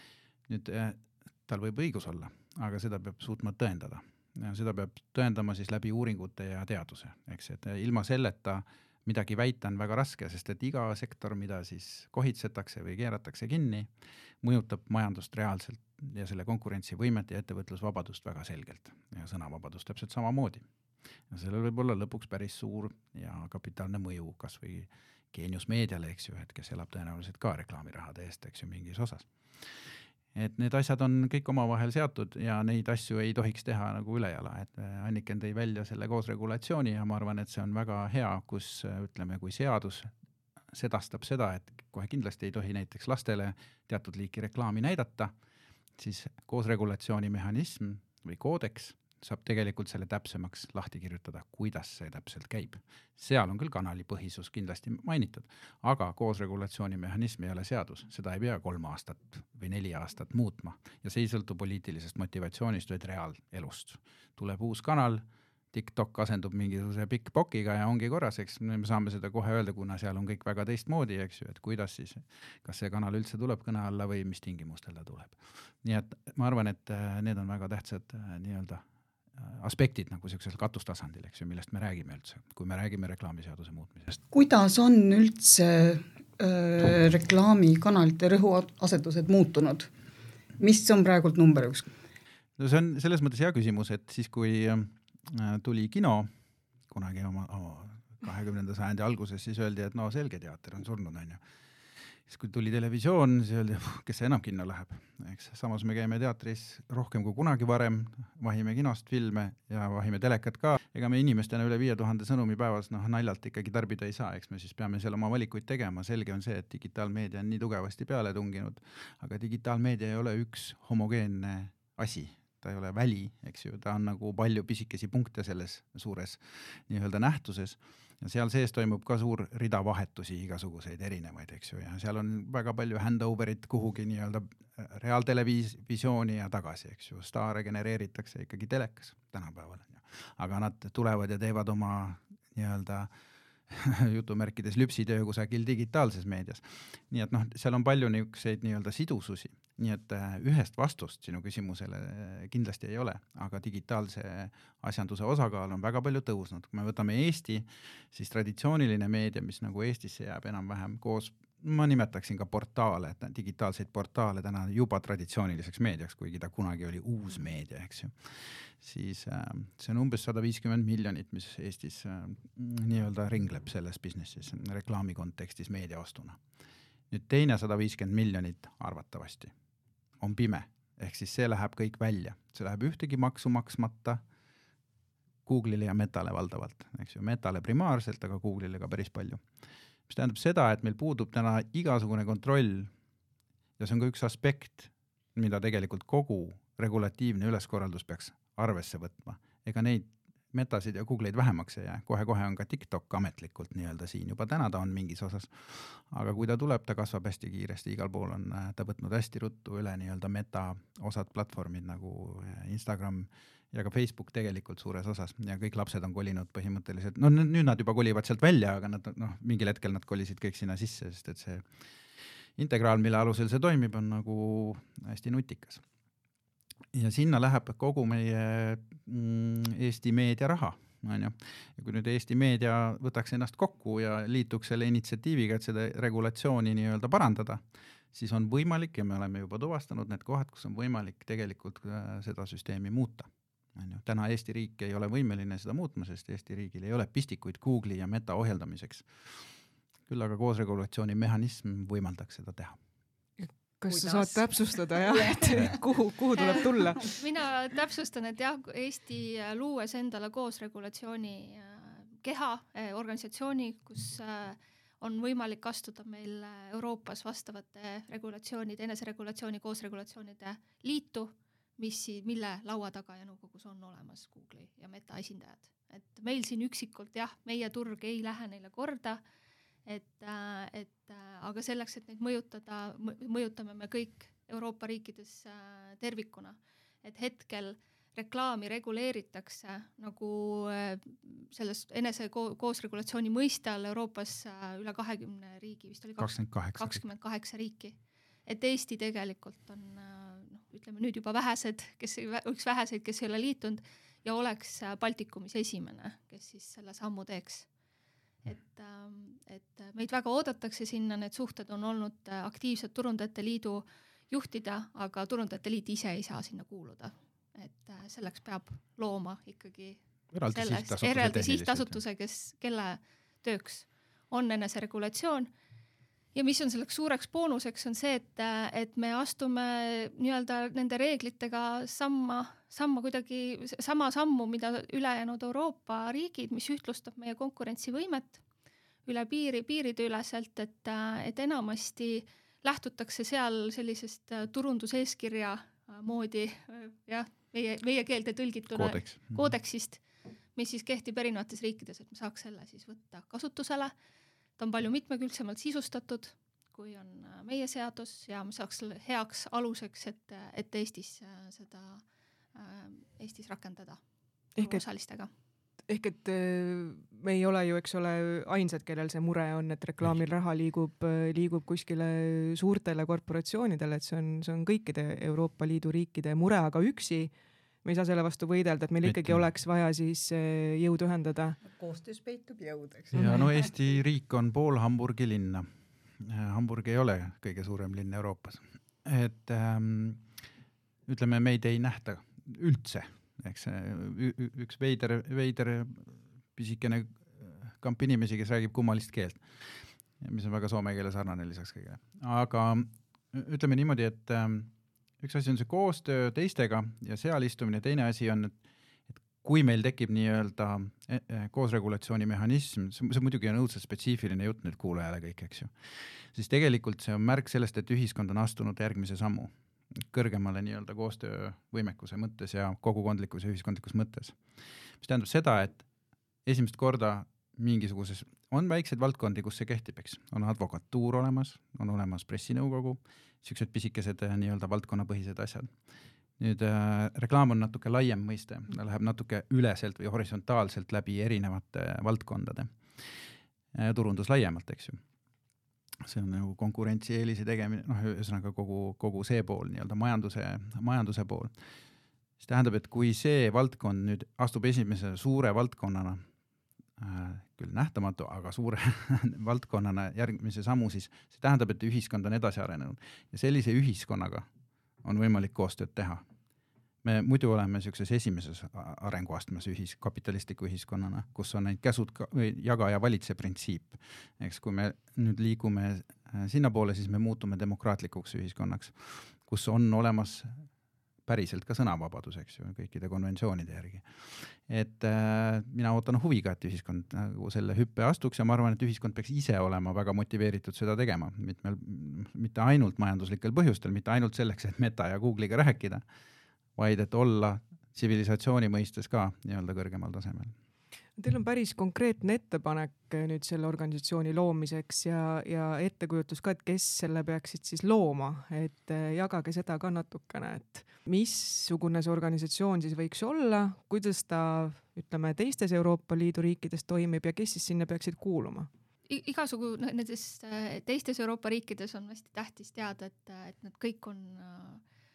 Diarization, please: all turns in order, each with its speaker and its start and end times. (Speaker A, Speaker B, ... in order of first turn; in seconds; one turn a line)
Speaker A: 0.5-13.9
Speaker A: 14.4-20.6
Speaker A: 21.3-29.7
Speaker A: 30.3-40.1
Speaker A: 40.7-45.3
Speaker A: 46.0-78.8
Speaker A: 79.3-84.2
Speaker B: 84.3-89.9
Speaker B: 90.6-91.9
Speaker A: 92.6-96.3
Speaker A: 96.9-101.4
Speaker A: 102.3-143.1
Speaker A: 143.7-176.4
Speaker A: 177.1-179.5
Speaker A: 180.2-184.2
Speaker A: 185.4-189.4
Speaker A: 190.1-192.9
Speaker A: 193.8-221.7
Speaker A: 222.6-225.8
Speaker A: 226.9-237.6
Speaker A: 238.1-249.3
Speaker A: 250.1-252.8
Speaker C: 253.4-257.1
Speaker B: 253.9-255.8
Speaker B: 256.3-257.1
Speaker D: 256.4-279.2
Speaker D: 279.9-297.9
Speaker A: 296.2-297.0
Speaker D: 298.4-307.7
Speaker D: 308.4-325.5
Speaker A: 320.3-322.0
Speaker D: 326.3-338.4
Speaker D: 339.1-350.0
Speaker A: 348.7-349.4
Speaker D: 350.5-353.9
Speaker D: 354.6-362.0
Speaker D: 362.5-364.0
Speaker C: 364.6-364.8
Speaker D: 364.6-365.3
Speaker C: 365.9-377.3
Speaker C: 377.8-381.6
Speaker A: 379.0-379.4
Speaker B: 381.6-383.7
Speaker C: 383.1-383.4
Speaker A: 383.1-385.7
Speaker A: 386.2-390.2
Speaker A: 391.1-408.5
Speaker A: 409.1-415.7
Speaker A: 416.3-424.4
Speaker A: 425.0-425.8
Speaker A: 426.4-435.7
Speaker A: 436.4-443.2
Speaker A: 443.7-445.0
Speaker A: 446.0-451.5
Speaker A: 452.4-456.2
Speaker A: 457.0-464.4
Speaker A: 465.0-466.2
Speaker A: 467.0-480.6
Speaker A: 481.2-496.0
Speaker A: 496.8-500.5
Speaker C: 501.2-518.7
Speaker D: 519.1-524.8